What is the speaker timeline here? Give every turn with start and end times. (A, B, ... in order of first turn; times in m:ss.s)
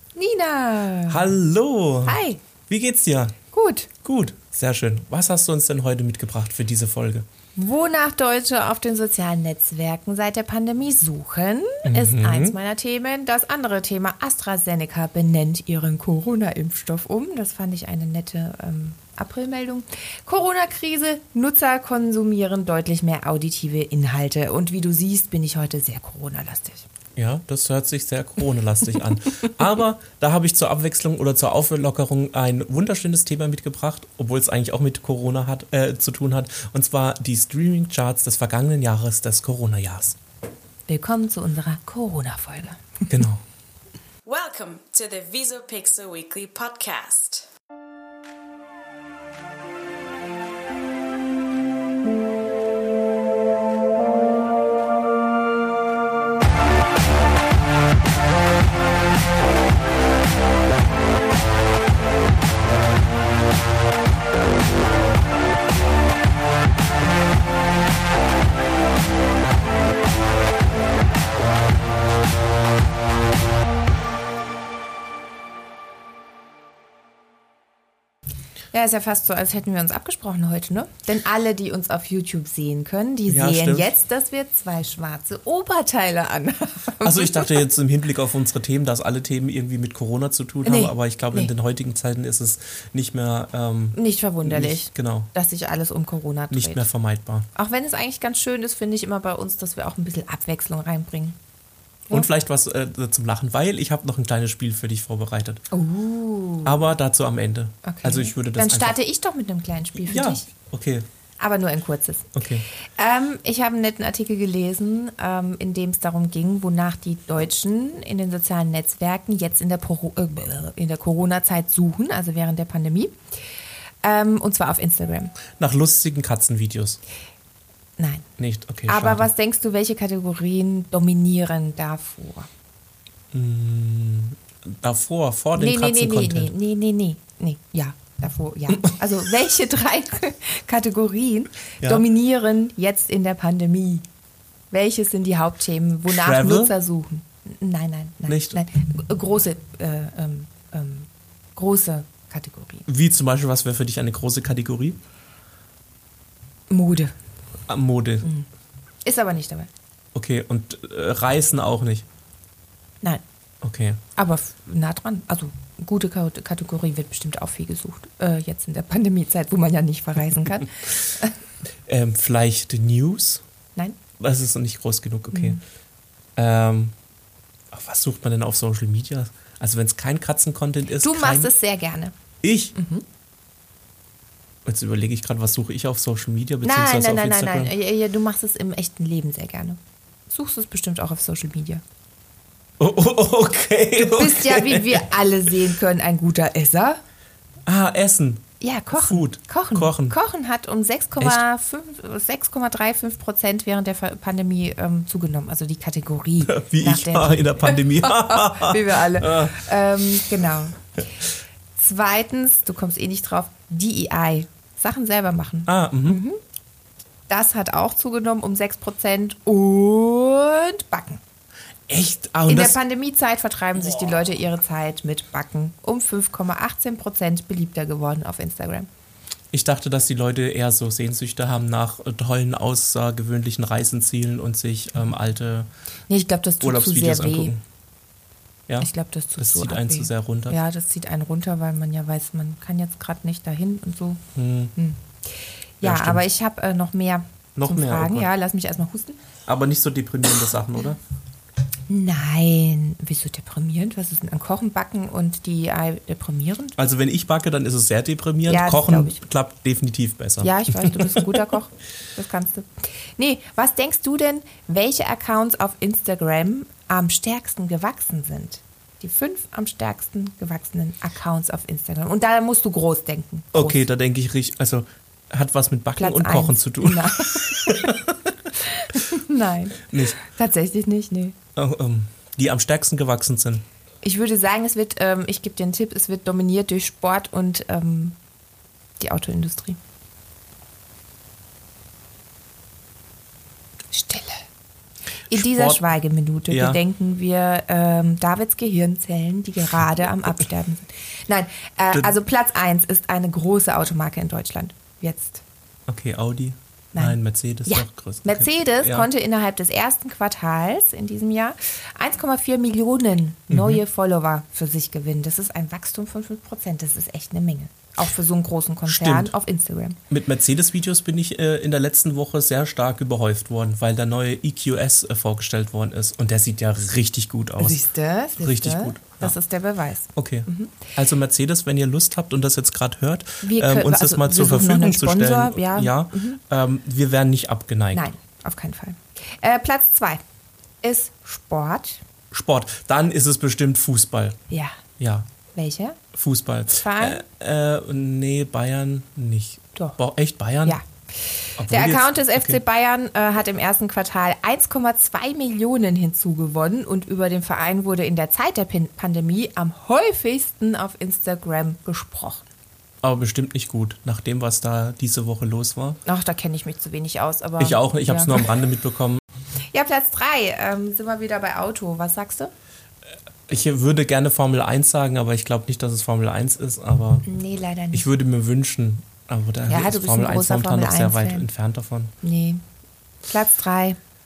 0:00.2-0:01.3 A
0:01.1-0:03.4 B
0:02.0-0:02.4 A
0:03.5-0:03.9 A
0:04.0-0:07.2 B
0:07.6-0:26.8 A
0:11.8-0:12.6 B
0:27.2-0:40.2 B
0:40.9-0:43.1 A
0:43.1-0:43.4 B
0:44.2-0:47.5 C
1:18.7-1:27.6 A
1:23.3-1:23.9 B
1:27.0-1:35.3 B
1:30.6-1:31.5 A
1:33.9-1:36.8 A
1:36.5-1:37.5 B
1:37.5-1:41.4 A
1:42.1-1:45.6 B
1:45.7-1:46.8 A
1:46.6-1:49.0 B
1:47.8-1:50.4 A
1:50.0-1:51.0 B
1:51.4-1:52.3 A
1:52.3-1:52.7 B
1:53.0-2:03.2 A
2:04.0-2:05.3 A
2:05.6-2:07.0 B
2:08.0-2:08.3 A
2:08.4-2:09.3 B
2:08.9-2:12.5 A
2:13.3-2:16.5 B
2:15.5-2:24.0 A
2:24.7-2:32.8 A
2:26.1-2:26.7 B
2:28.3-2:28.6 B
2:32.8-2:35.0 B
2:36.7-2:37.1 A
2:37.7-2:38.3 B
2:39.0-2:39.7 A
2:40.1-2:42.0 B
2:43.6-2:44.0 B
2:44.2-2:51.3 A
2:51.9-2:53.4 B
2:54.2-2:55.6 B
2:55.3-2:55.6 A
2:56.4-2:56.9 B
2:57.7-3:01.5 B
3:01.0-3:02.1 A
3:02.4-3:02.7 B
3:02.7-3:03.0 A
3:04.6-3:07.7 B
3:06.6-3:11.8 A
3:12.8-3:15.1 B
3:14.0-3:17.0 A
3:17.7-3:20.2 B
3:18.6-3:31.2 A
3:26.4-3:29.7 B
3:31.7-3:36.4 A
3:35.6-3:36.2 B
3:37.3-3:41.2 A
3:41.9-3:42.8 B
3:42.5-3:48.9 A
3:49.5-3:55.7 B
3:56.1-3:57.5 A
3:56.6-3:57.6 B
3:58.7-4:00.6 B
3:58.8-4:04.2 A
4:04.3-4:04.7 B
4:04.8-4:09.2 A
4:05.8-4:06.2 B
4:07.6-4:08.3 B
4:09.5-4:11.0 B
4:11.9-4:16.8 A
4:16.8-4:21.2 B
4:18.5-4:19.2 A
4:20.4-4:33.8 A
4:33.5-4:38.5 B
4:36.0-4:38.0 A
4:38.6-4:41.4 A
4:39.9-4:40.2 B
4:41.6-4:43.6 B
4:44.0-4:48.2 A
4:49.0-4:49.8 A
4:53.9-4:54.4 A
4:55.3-5:05.4 A
4:55.3-4:55.8 B
4:56.5-4:56.8 B
5:05.9-5:09.1 B
5:06.9-5:20.0 A
5:13.5-5:13.8 B
5:18.8-5:19.3 B
5:20.1-5:27.8 B
5:27.6-5:30.8 A
5:28.4-5:29.3 B
5:30.1-5:38.1 B
5:33.4-5:36.4 A
5:37.9-5:40.2 A
5:40.8-5:42.0 A
5:42.3-5:44.4 B
5:44.5-5:44.8 A
5:45.0-5:45.3 B
5:45.5-5:46.0 A
5:46.1-5:50.8 B
5:46.8-5:47.2 A
5:50.6-6:02.4 A
5:51.6-5:52.6 B
6:03.0-6:06.0 B
6:06.0-6:08.6 A
6:07.6-6:09.2 B
6:09.7-6:12.5 A
6:13.5-6:17.3 B
6:17.2-6:18.0 A
6:17.9-6:22.1 B
6:19.7-6:21.5 A
6:22.2-6:22.6 A
6:23.3-6:24.0 A